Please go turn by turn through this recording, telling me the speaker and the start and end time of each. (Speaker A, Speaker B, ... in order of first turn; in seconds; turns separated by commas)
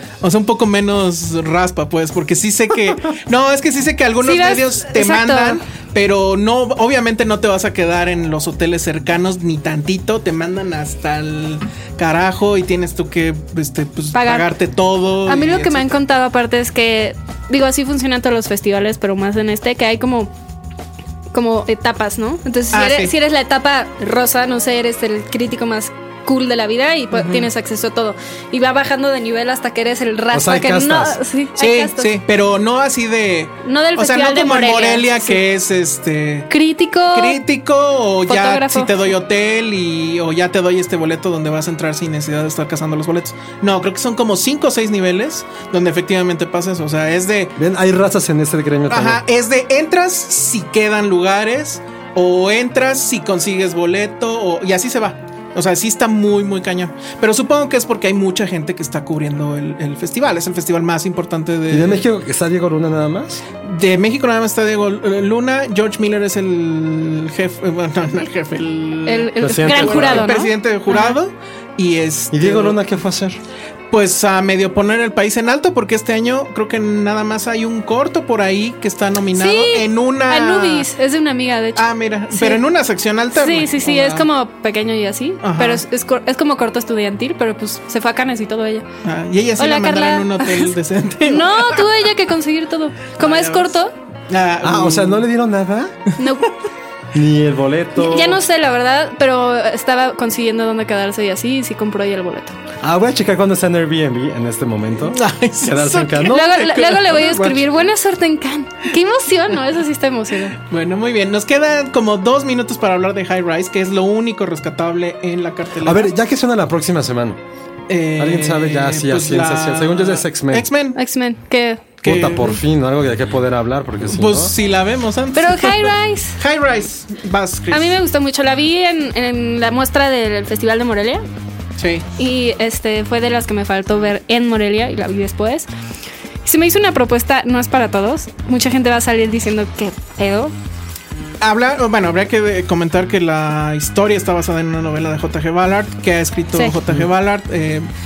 Speaker A: 0.2-15.9, Speaker B: 4.2-5.6, Speaker B: 14.1-14.5, Speaker B: 15.3-20.3, Speaker B: 21.3-32.1, Speaker A: 22.7-23.1, Speaker A: 27.1-27.5, Speaker C: 30.3-31.2, Speaker A: 31.6-36.5, Speaker B: 33.6-35.4, Speaker B: 36.5-37.4, Speaker A: 37.1-47.5, Speaker B: 38.3-39.1, Speaker C: 47.6-49.2, Speaker A: 48.9-62.1, Speaker C: 61.7-63.4, Speaker A: 63.6-72.8, Speaker B: 69.1-71.2, Speaker C: 69.4-70.3, Speaker C: 72.3-73.4, Speaker A: 73.9-80.9, Speaker B: 79.3-82.6, Speaker A: 81.8-84.3, Speaker B: 83.3-88.8, Speaker A: 85.4-85.8, Speaker A: 89.0-91.9, Speaker B: 89.6-90.7, Speaker B: 91.3-93.9, Speaker A: 93.2-93.7, Speaker A: 94.3-95.2, Speaker C: 94.6-96.0, Speaker B: 96.2-96.6, Speaker C: 97.1-98.4, Speaker B: 98.0-102.6, Speaker C: 102.8-107.7, Speaker A: 105.1-107.5, Speaker B: 106.3-110.6, Speaker A: 110.6-116.1, Speaker C: 115.8-117.4, Speaker A: 117.9-121.0, Speaker C: 118.2-120.7, Speaker B: 121.0-121.9, Speaker A: 122.0-122.6, Speaker C: 122.0-124.5, Speaker A: 124.1-128.0, Speaker B: 125.4-126.4, Speaker B: 127.7-131.2, Speaker A: 131.8-132.1, Speaker B: 132.2-135.7, Speaker B: 136.4-140.5, Speaker A: 141.4-147.9, Speaker B: 146.5-146.8